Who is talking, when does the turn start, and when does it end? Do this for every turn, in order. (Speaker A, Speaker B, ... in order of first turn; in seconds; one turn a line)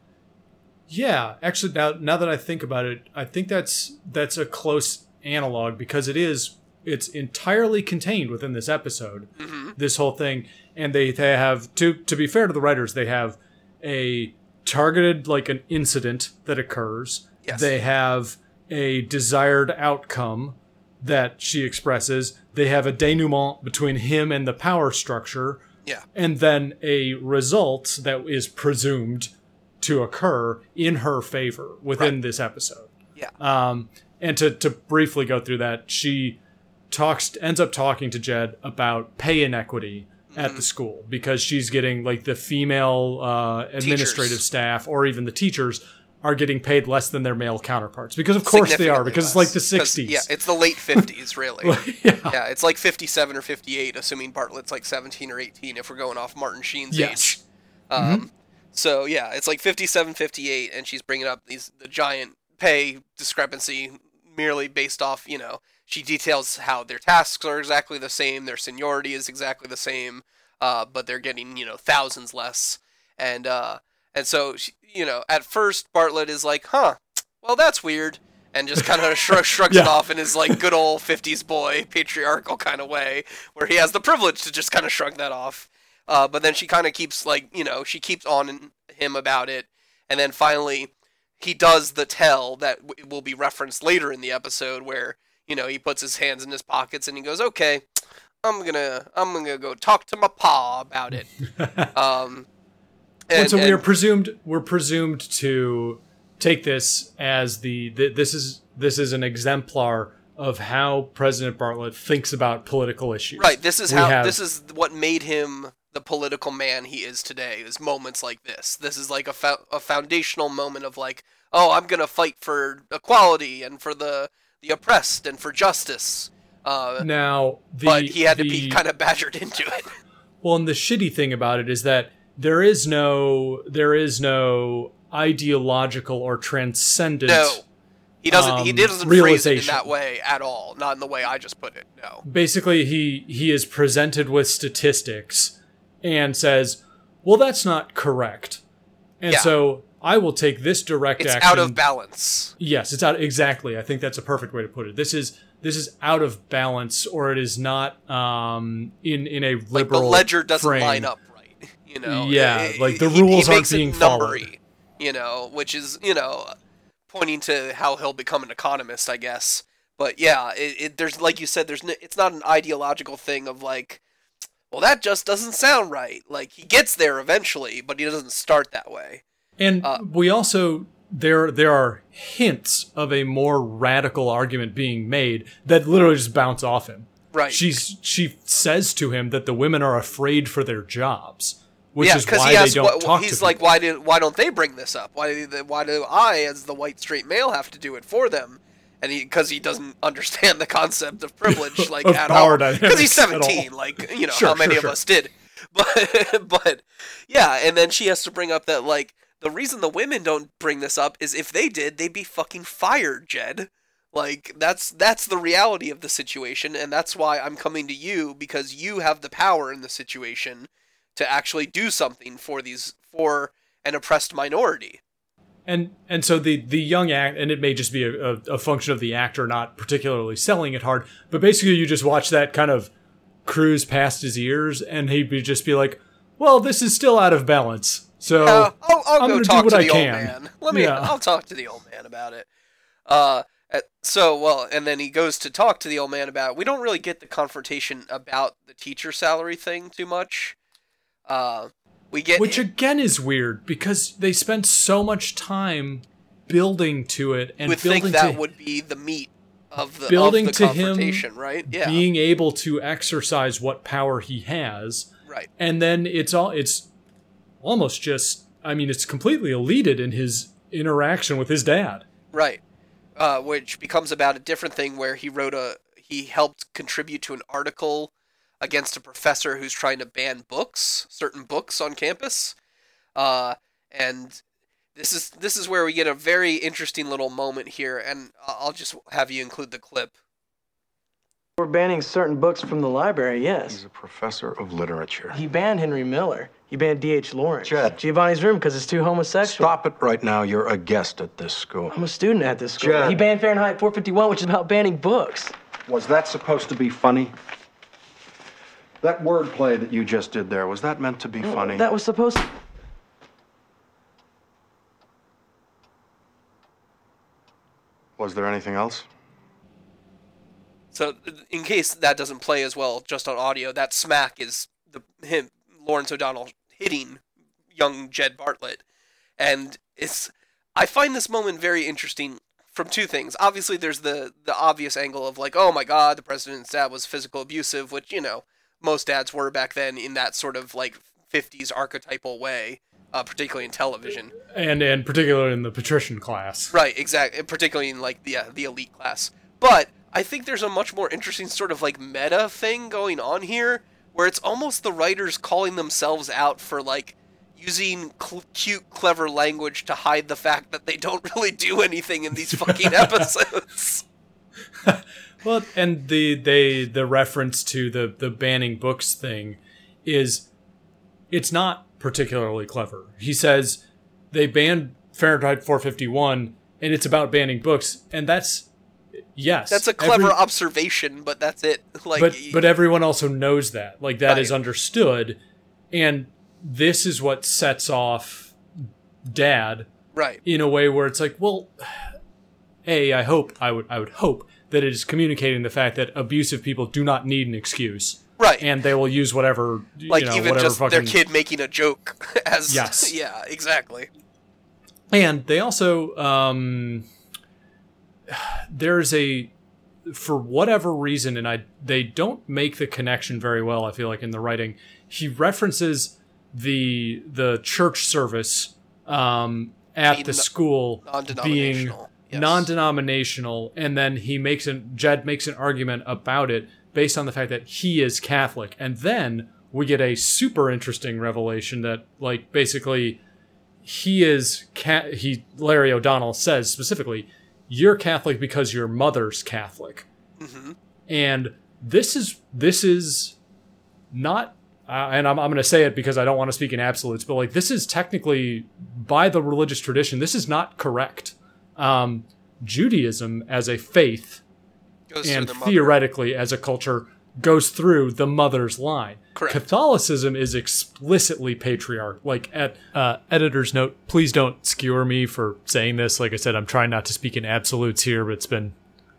Speaker A: 0.9-25.6
Speaker B: 9.4-9.8
Speaker A: 26.1-36.4
Speaker A: 36.9-50.3
Speaker B: 40.3-40.6
Speaker B: 43.8-44.4
Speaker B: 48.5-51.8
Speaker A: 51.6-52.4
Speaker B: 52.3-57.4
Speaker A: 56.9-57.4
Speaker B: 57.9-101.3
Speaker A: 58.0-58.3
Speaker A: 78.8-80.0
Speaker A: 101.6-101.9
Speaker B: 101.9-102.5
Speaker B: 103.3-103.8
Speaker A: 103.3-114.4
Speaker B: 113.4-127.1
Speaker A: 127.0-128.8
Speaker B: 127.8-129.9
Speaker A: 130.4-137.6
Speaker B: 137.3-137.6
Speaker B: 138.2-142.2
Speaker A: 138.3-139.9
Speaker A: 142.2-148.6
Speaker A: 149.2-151.8
Speaker B: 151.2-152.5
Speaker A: 152.6-161.1
Speaker B: 159.7-166.5
Speaker A: 162.0-164.5
Speaker B: 167.1-174.0
Speaker B: 174.7-179.2
Speaker A: 179.6-193.6
Speaker B: 187.3-187.8
Speaker B: 192.0-225.0
Speaker A: 201.5-203.7
Speaker A: 204.2-205.0
Speaker A: 225.7-232.9
Speaker A: 233.4-241.2
Speaker B: 238.4-242.5
Speaker B: 243.1-250.6
Speaker B: 251.3-252.6
Speaker A: 252.4-258.4
Speaker B: 257.7-262.0
Speaker A: 260.1-266.9
Speaker A: 267.6-272.1
Speaker B: 272.3-272.6
Speaker B: 273.2-282.6
Speaker B: 283.2-284.4
Speaker B: 285.0-290.1
Speaker C: 291.6-293.8
Speaker D: 293.7-295.4
Speaker C: 295.3-299.8
Speaker D: 297.6-298.0
Speaker D: 299.4-301.9
Speaker C: 301.9-305.5
Speaker D: 302.8-303.2
Speaker D: 305.9-307.3
Speaker D: 309.0-311.9
Speaker C: 311.4-312.5
Speaker D: 318.2-319.1
Speaker B: 320.9-327.2
Speaker B: 327.8-328.8
Speaker B: 329.4-344.3
Speaker A: 344.4-346.7
Speaker B: 346.7-364.0
Speaker A: 362.4-363.3
Speaker A: 364.8-370.5
Speaker A: 371.3-378.7
Speaker A: 379.3-380.4
Speaker B: 379.7-382.6
Speaker A: 382.2-385.4
Speaker B: 384.3-384.5
Speaker A: 385.9-388.6
Speaker A: 389.2-389.9
Speaker B: 390.1-390.4
Speaker A: 390.4-392.2
Speaker A: 392.9-401.2
Speaker B: 398.4-398.7
Speaker B: 400.1-404.1
Speaker A: 402.7-403.1
Speaker A: 405.1-407.1
Speaker A: 408.3-409.5
Speaker A: 410.1-433.2
Speaker B: 420.1-420.5
Speaker B: 421.0-422.7
Speaker A: 433.8-440.1
Speaker B: 440.4-440.8
Speaker A: 441.1-443.4
Speaker A: 444.1-454.4
Speaker B: 455.1-456.0
Speaker A: 455.2-468.8
Speaker B: 459.4-459.6